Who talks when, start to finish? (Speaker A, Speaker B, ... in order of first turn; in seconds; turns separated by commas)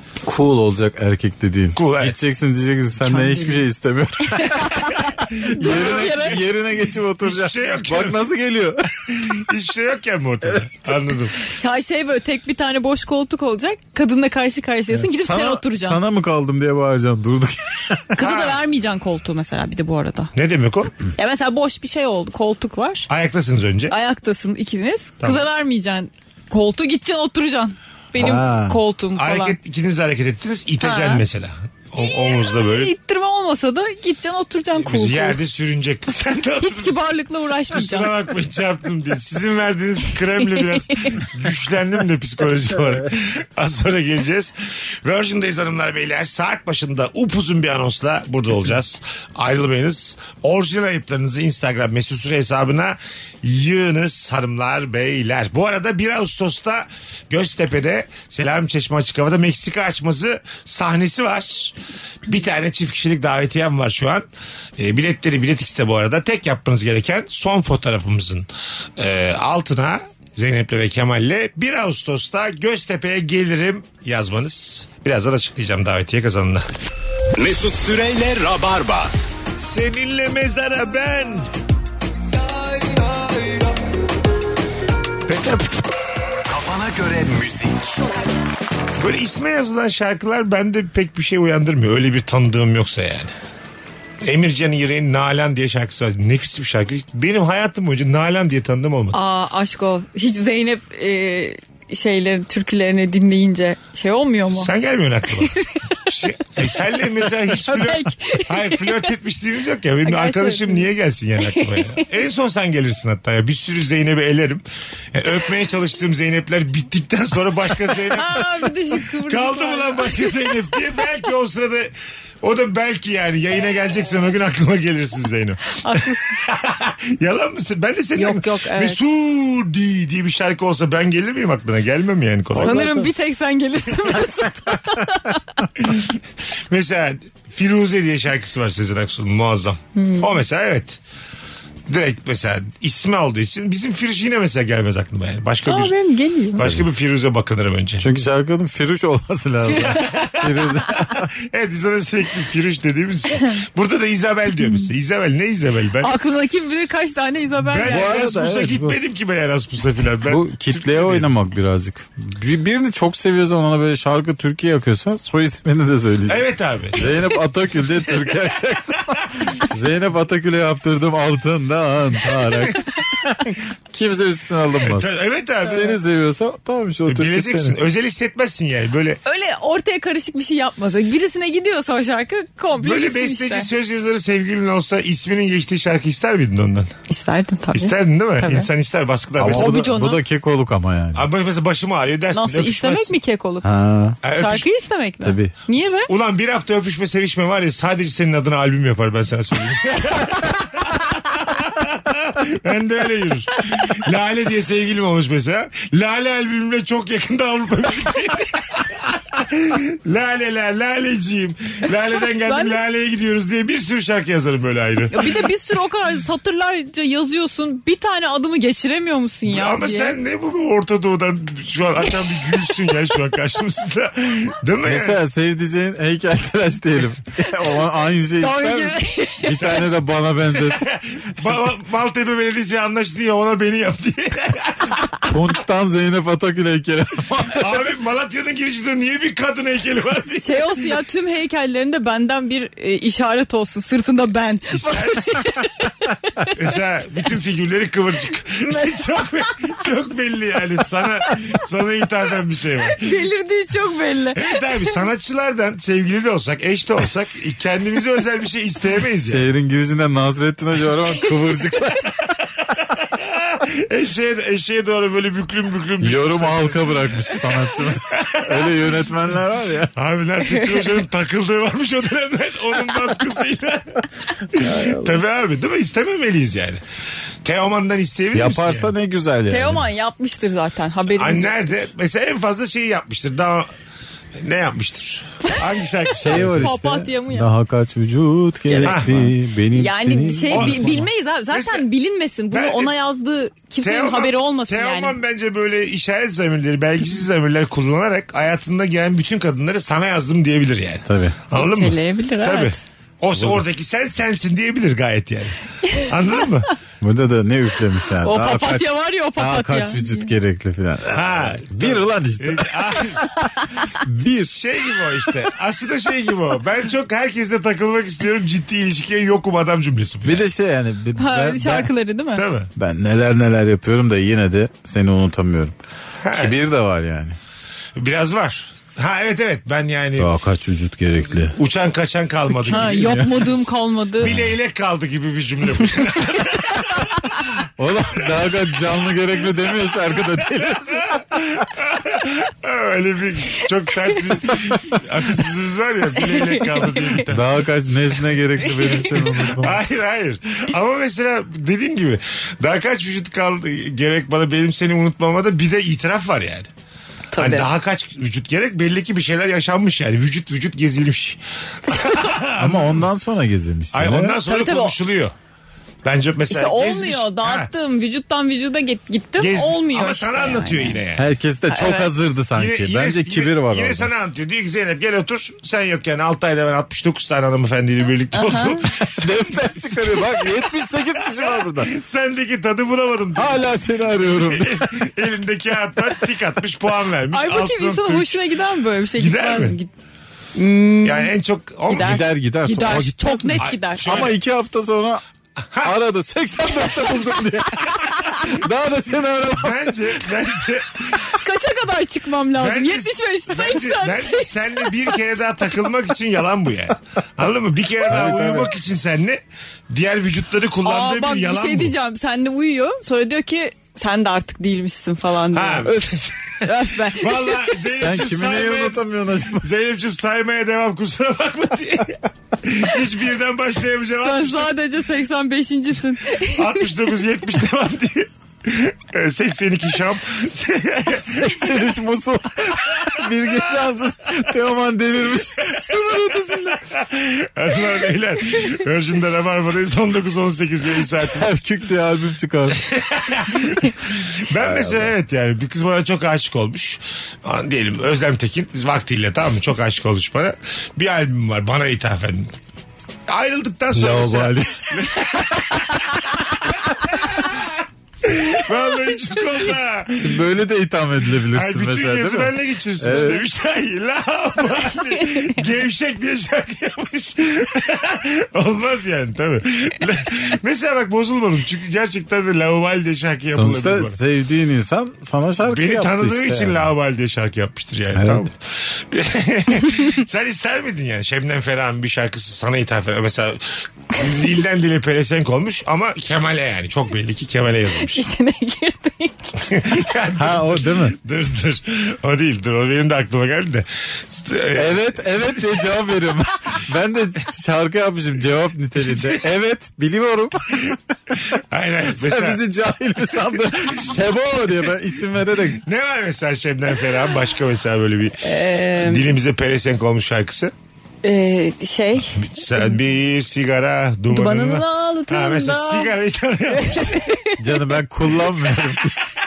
Speaker A: 0.2-9.5, Speaker B: 1.7-2.1, Speaker C: 3.0-3.6, Speaker C: 4.3-6.4, Speaker B: 5.3-6.5, Speaker B: 7.2-8.2, Speaker B: 9.1-11.4, Speaker A: 10.4-11.0, Speaker C: 11.4-16.0, Speaker A: 14.9-18.2, Speaker C: 18.1-20.3, Speaker B: 18.2-18.6, Speaker B: 20.3-20.9, Speaker C: 21.2-23.1, Speaker B: 23.1-23.9, Speaker C: 23.9-29.6, Speaker A: 28.1-28.8, Speaker B: 28.2-28.4, Speaker B: 29.1-32.9, Speaker C: 30.8-31.2, Speaker C: 32.0-35.4, Speaker B: 34.8-37.0, Speaker C: 36.6-38.1, Speaker B: 37.7-64.2, Speaker B: 64.8-68.5, Speaker B: 69.0-76.7, Speaker D: 77.4-79.1, Speaker B: 79.6-81.5, Speaker D: 82.6-83.6, Speaker B: 85.3-85.7, Speaker D: 86.5-88.0, Speaker B: 89.0-93.3, Speaker B: 94.2-99.2, Speaker C: 99.1-104.7, Speaker B: 104.5-105.5, Speaker C: 105.4-106.0, Speaker B: 106.1-132.9, Speaker C: 107.2-109.1, Speaker C: 110.0-110.9, Speaker C: 111.5-112.0, Speaker C: 117.9-120.8, Speaker C: 125.7-126.4, Speaker C: 128.1-129.0, Speaker A: 132.5-133.1, Speaker C: 132.5-135.6, Speaker B: 135.8-136.2, Speaker B: 136.7-141.0, Speaker C: 139.9-140.3, Speaker B: 141.9-145.9, Speaker C: 145.7-146.7, Speaker B: 146.6-148.1, Speaker A: 146.6-146.9, Speaker A: 148.0-151.2, Speaker C: 149.6-150.2, Speaker B: 149.8-156.1, Speaker C: 156.0-158.2, Speaker B: 157.6-161.3, Speaker A: 157.8-159.0, Speaker A: 160.2-177.8, Speaker B: 166.3-167.1, Speaker B: 174.8-175.9, Speaker B: 177.1-179.2, Speaker C: 179.2-183.7, Speaker B: 182.8-186.9, Speaker C: 187.1-188.7, Speaker B: 187.7-189.8, Speaker A: 189.4-191.2, Speaker C: 189.4-190.2, Speaker B: 191.1-193.1, Speaker C: 192.3-193.7, Speaker A: 193.6-194.2, Speaker B: 194.2-194.7, Speaker C: 194.2-196.1, Speaker A: 195.2-195.5, Speaker B: 196.1-215.4, Speaker C: 212.4-212.8, Speaker C: 215.1-220.2, Speaker B: 219.4-225.2, Speaker A: 224.8-230.8, Speaker C: 228.4-229.6, Speaker B: 229.6-230.0, Speaker B: 230.6-235.1, Speaker A: 235.2-237.8, Speaker B: 237.3-241.0, Speaker C: 240.3-246.5, Speaker B: 244.7-245.4, Speaker B: 246.5-253.2, Speaker C: 248.6-249.1, Speaker C: 252.9-255.0, Speaker B: 254.3-259.4, Speaker A: 259.2-262.2, Speaker B: 262.8-268.8, Speaker A: 266.0-269.9, Speaker B: 269.9-276.8, Speaker C: 270.4-271.0, Speaker A: 274.5-275.2, Speaker B: 277.4-278.9, Speaker A: 278.3-279.9, Speaker C: 279.5-281.8, Speaker B: 281.1-283.7, Speaker B: 284.4-286.7, Speaker A: 286.1-291.1, Speaker C: 286.3-287.5, Speaker C: 288.7-289.1, Speaker B: 288.8-289.3, Speaker C: 289.7-295.1, Speaker B: 290.5-291.8, Speaker B: 292.5-292.9, Speaker B: 293.8-306.7, Speaker A: 301.0-301.4, Speaker C: 301.5-302.8, Speaker A: 303.3-303.6, Speaker A: 307.0-313.5, Speaker C: 308.2-310.3, Speaker B: 311.1-313.3, Speaker A: 314.0-314.5, Speaker B: 314.4-320.5, Speaker A: 320.2-321.9, Speaker C: 321.2-322.4, Speaker B: 322.3-322.7, Speaker A: 322.8-325.8, Speaker B: 326.2-326.5, Speaker A: 326.3-327.4, Speaker B: 328.0-330.3, Speaker A: 330.2-331.6, Speaker B: 331.4-333.6, Speaker A: 332.5-333.3, Speaker C: 332.7-334.3, Speaker B: 334.2-337.2, Speaker A: 334.2-334.5, Speaker A: 337.8-341.6, Speaker B: 340.9-347.5, Speaker C: 346.2-347.2, Speaker A: 347.2-349.8, Speaker C: 348.6-349.4, Speaker B: 349.5-356.7, Speaker C: 357.3-357.7, Speaker B: 357.4-363.1, Speaker A: 362.6-364.4, Speaker B: 363.9-365.3, Speaker C: 364.4-364.9, Speaker B: 366.0-367.7, Speaker C: 366.5-371.0, Speaker B: 369.4-371.3, Speaker A: 371.1-374.1, Speaker C: 371.7-372.1, Speaker B: 372.6-380.5, Speaker C: 378.3-378.8, Speaker A: 378.9-381.9, Speaker B: 381.2-388.4, Speaker A: 383.3-385.0, Speaker C: 387.3-389.9, Speaker B: 389.1-389.8, Speaker C: 390.5-391.3, Speaker B: 391.0-392.2, Speaker C: 391.9-394.3, Speaker A: 391.9-395.2, Speaker B: 393.6-394.4, Speaker B: 395.7-395.9, Speaker A: 395.8-400.2, Speaker B: 399.6-401.3, Speaker C: 401.3-405.1, Speaker B: 402.5-411.9, Speaker A: 408.1-408.7, Speaker C: 410.8-417.8, Speaker B: 415.5-419.0, Speaker A: 417.9-419.7, Speaker B: 419.6-424.7, Speaker C: 424.2-426.9, Speaker B: 426.5-431.5, Speaker A: 431.2-436.8, Speaker B: 433.0-433.7, Speaker B: 435.7-441.6, Speaker A: 441.2-442.8, Speaker B: 442.7-452.5, Speaker A: 444.5-445.1, Speaker B: 453.3-460.4, Speaker A: 453.9-455.1, Speaker A: 460.1-463.4, Speaker B: 461.5-474.2, Speaker C: 465.1-465.5, Speaker A: 473.5-476.9, Speaker B: 475.7-488.2, Speaker A: 478.1-478.4, Speaker C: 488.0-489.5, Speaker B: 489.7-495.2, Speaker A: 490.3-491.2, Speaker A: 494.7-501.0, Speaker B: 499.0-499.4, Speaker B: 500.9-502.6, Speaker A: 502.0-505.8, Speaker B: 505.8-510.7, Speaker C: 508.4-509.3, Speaker C: 511.2-512.9, Speaker B: 512.4-517.3, Speaker C: 514.3-516.1, Speaker C: 516.7-517.6, Speaker A: 517.6-519.2